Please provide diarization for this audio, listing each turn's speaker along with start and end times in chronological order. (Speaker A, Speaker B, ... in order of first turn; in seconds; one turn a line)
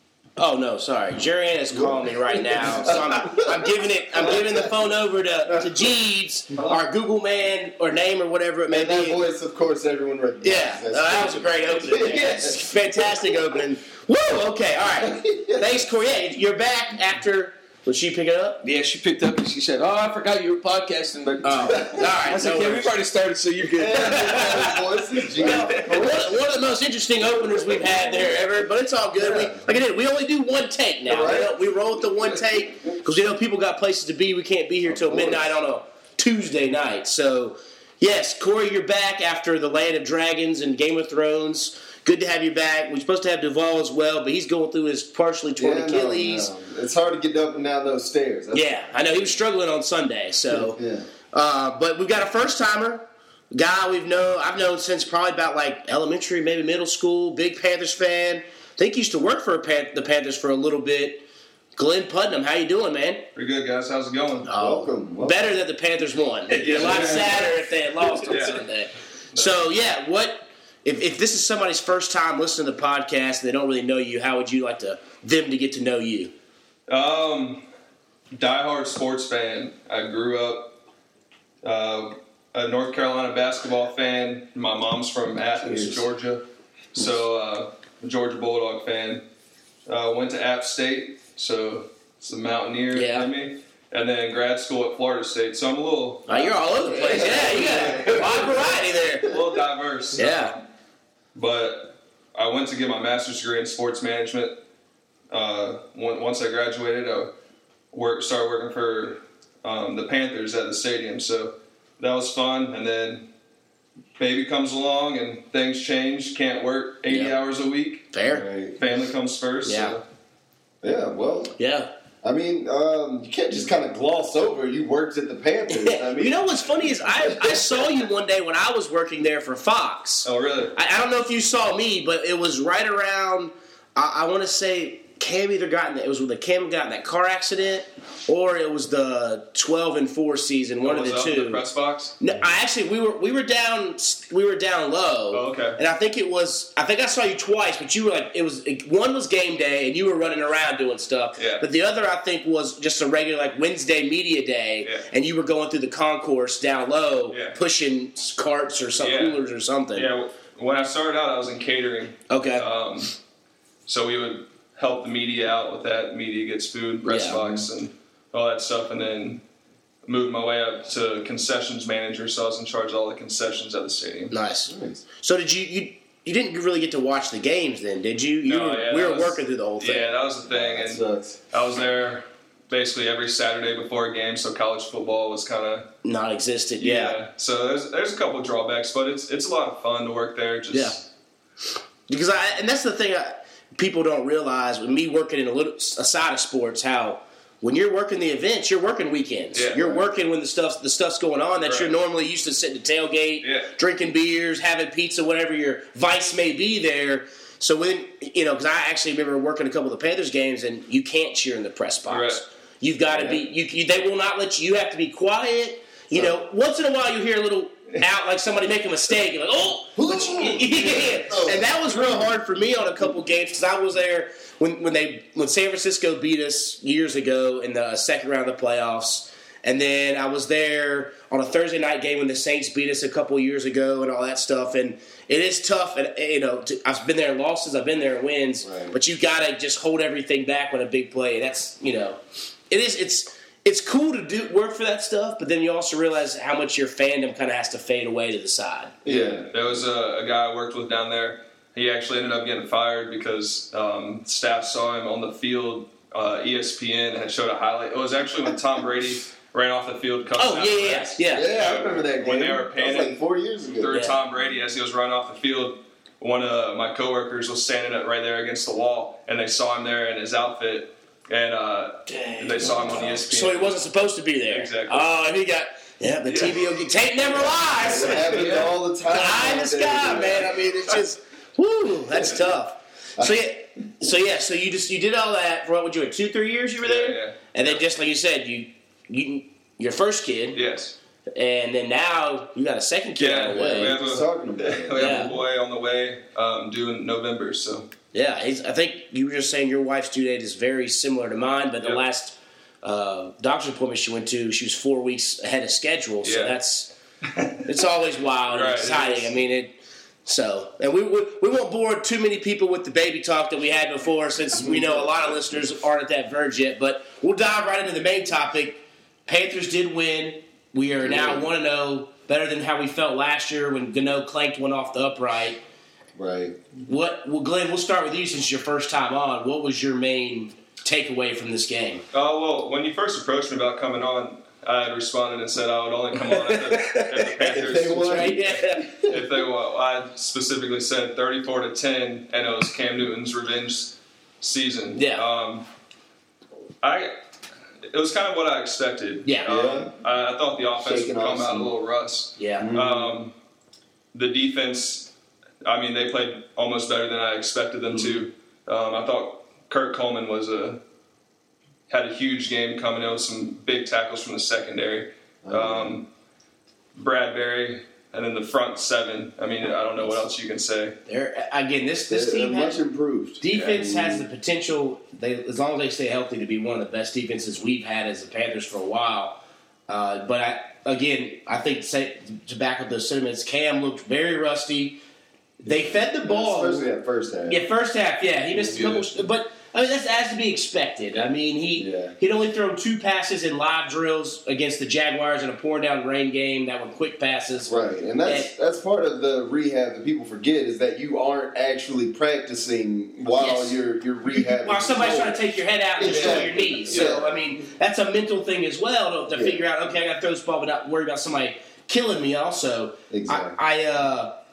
Speaker A: 0.4-9.2
Speaker B: 1.7-4.7
Speaker B: 8.7-13.5
Speaker A: 10.4-18.6
Speaker B: 14.8-15.8
Speaker C: 18.6-26.1
Speaker A: 21.4-22.9
Speaker B: 21.6-22.1
Speaker B: 23.8-26.4
Speaker A: 24.0-24.4
Speaker A: 25.4-46.5
Speaker B: 29.2-29.7
Speaker B: 31.1-31.6
Speaker B: 34.9-35.6
Speaker B: 45.6-49.4
Speaker A: 48.5-50.8
Speaker B: 50.5-51.1
Speaker A: 51.3-61.2
Speaker A: 61.8-63.2
Speaker D: 63.4-64.5
Speaker A: 64.4-76.3
Speaker B: 64.6-65.5
Speaker D: 66.5-67.5
Speaker B: 66.7-67.2
Speaker D: 68.2-68.6
Speaker D: 69.3-69.7
Speaker D: 76.9-77.6
Speaker D: 78.3-80.8
Speaker D: 81.6-86.4
Speaker D: 86.9-89.2
Speaker D: 89.9-96.6
Speaker A: 92.9-93.3
Speaker A: 96.3-99.3
Speaker B: 96.8-99.4
Speaker D: 99.2-100.6
Speaker A: 100.2-100.6
Speaker D: 101.3-104.6
Speaker D: 105.3-107.3
Speaker D: 107.9-113.3
Speaker D: 114.2-118.1
Speaker A: 117.1-117.3
Speaker A: 118.1-118.5
Speaker B: 118.2-118.8
Speaker D: 118.8-120.0
Speaker A: 119.7-120.0
Speaker B: 120.8-121.5
Speaker A: 121.6-121.9
Speaker B: 122.2-127.9
Speaker A: 125.7-141.6
Speaker D: 130.2-130.8
Speaker D: 140.8-142.2
Speaker A: 142.2-160.1
Speaker D: 145.3-145.8
Speaker D: 151.4-151.7
Speaker D: 157.3-157.6
Speaker D: 159.0-159.4
Speaker D: 159.9-163.1
Speaker A: 162.3-162.7
Speaker D: 163.9-169.4
Speaker A: 167.1-167.4
Speaker D: 170.1-174.3
Speaker A: 174.3-180.1
Speaker B: 174.7-175.0
Speaker D: 178.4-185.9
Speaker B: 180.5-181.4
Speaker A: 186.0-187.2
Speaker D: 186.8-191.1
Speaker A: 192.1-249.0
Speaker D: 199.5-199.8
Speaker B: 199.7-200.1
Speaker D: 201.6-201.9
Speaker D: 203.4-203.7
Speaker D: 212.1-212.4
Speaker B: 213.1-213.4
Speaker B: 220.0-222.3
Speaker B: 238.6-239.0
Speaker B: 249.1-249.8
Speaker D: 249.1-263.2
Speaker A: 260.4-261.5
Speaker B: 261.3-264.0
Speaker D: 263.8-273.8
Speaker A: 263.9-264.2
Speaker A: 272.1-290.6
Speaker D: 274.5-275.1
Speaker D: 276.3-276.7
Speaker B: 277.2-280.5
Speaker C: 278.3-278.7
Speaker D: 286.8-287.8
Speaker D: 290.5-290.9
Speaker A: 291.4-294.0
Speaker D: 293.2-297.9
Speaker B: 293.5-295.3
Speaker A: 294.9-295.4
Speaker A: 298.1-306.9
Speaker D: 306.2-306.6
Speaker D: 307.2-307.8
Speaker A: 307.7-325.6
Speaker D: 308.5-309.4
Speaker B: 314.6-315.2
Speaker B: 321.0-321.5
Speaker B: 326.2-326.6
Speaker A: 326.9-332.1
Speaker D: 332.1-338.4
Speaker A: 336.2-337.3
Speaker B: 337.5-339.2
Speaker A: 338.0-338.9
Speaker D: 339.0-345.7
Speaker A: 344.9-345.2
Speaker D: 346.8-347.1
Speaker D: 347.9-353.3
Speaker B: 349.4-349.9
Speaker B: 350.8-351.7
Speaker A: 352.4-352.7
Speaker B: 352.6-353.1
Speaker D: 354.1-355.1
Speaker D: 355.6-360.8
Speaker D: 361.9-366.1
Speaker B: 365.4-366.0
Speaker D: 366.9-370.9
Speaker A: 371.1-372.8
Speaker B: 372.1-374.2
Speaker A: 373.4-385.0
Speaker A: 385.6-386.9
Speaker B: 385.7-387.6
Speaker A: 387.5-397.7
Speaker C: 388.6-389.1
Speaker B: 391.8-392.2
Speaker B: 397.7-405.4
Speaker A: 398.2-398.5
Speaker A: 403.3-414.3
Speaker B: 406.0-407.4
Speaker C: 406.0-407.2
Speaker B: 409.3-409.6
Speaker B: 413.1-413.6